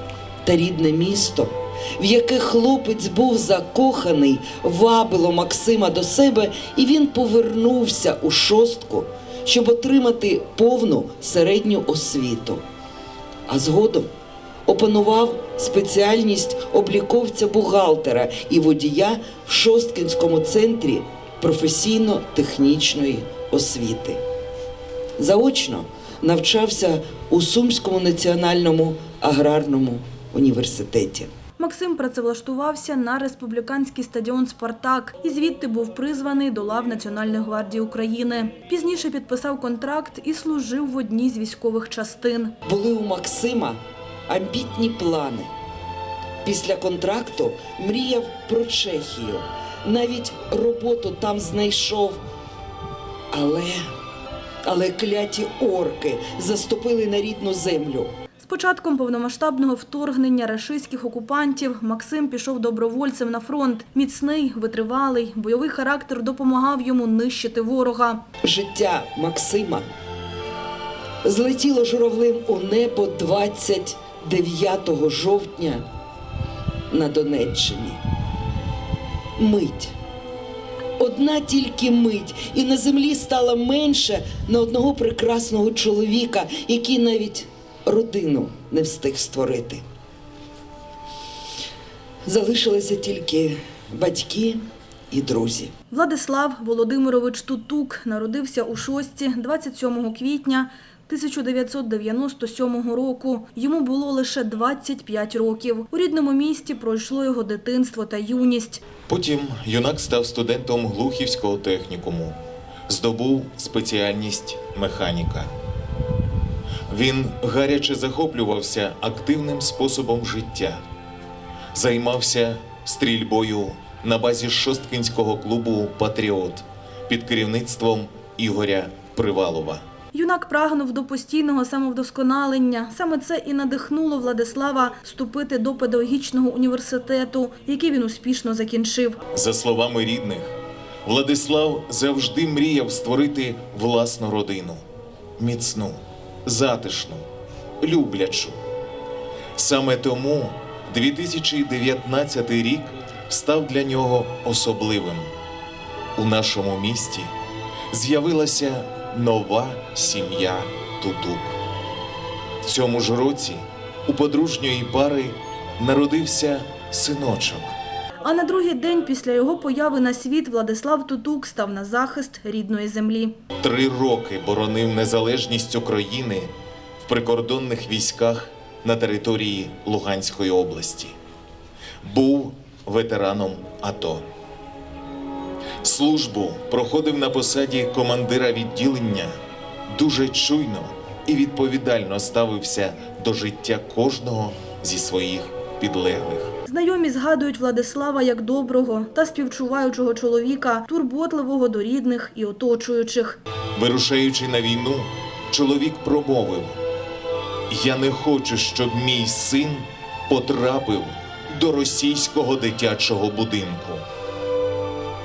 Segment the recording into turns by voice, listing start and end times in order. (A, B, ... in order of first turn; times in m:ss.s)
0:00.4-0:12.6 A
0:13.5-0:14.1 A
0:14.6-0:24.2 A
0:25.2-0:31.3 A
0:31.6-0:42.5 B
0:42.6-0:45.5 A
0:46.4-0:52.2 A
0:53.3-0:53.8 A
0:54.6-0:58.1 A
0:58.4-1:08.2 B
1:08.4-1:09.8 A
1:11.2-1:15.8 A
1:16.9-1:18.0 A
1:19.4-1:19.9 A
1:21.0-1:29.8 A
1:32.2-1:35.7 A
1:35.9-1:48.8 B
1:49.1-1:52.4 C
1:52.9-1:55.5 C
1:56.9-2:00.8 C
2:01.7-2:09.8 C
2:10.1-2:19.2 B
2:19.3-2:24.8 C
2:25.4-2:27.2 C
2:27.8-2:28.6 C
2:29.6-2:35.3 C
2:36.2-2:37.3 C
2:37.9-2:41.6 C
2:42.6-2:47.7 C
2:48.2-2:53.4 B
2:53.6-2:56.5 C
2:57.0-3:01.1 C
3:02.0-3:04.2 C
3:05.8-3:09.3 C
3:09.9-3:16.5 C
3:16.7-3:23.4 B
3:23.8-3:26.8 C
3:27.7-3:34.0 C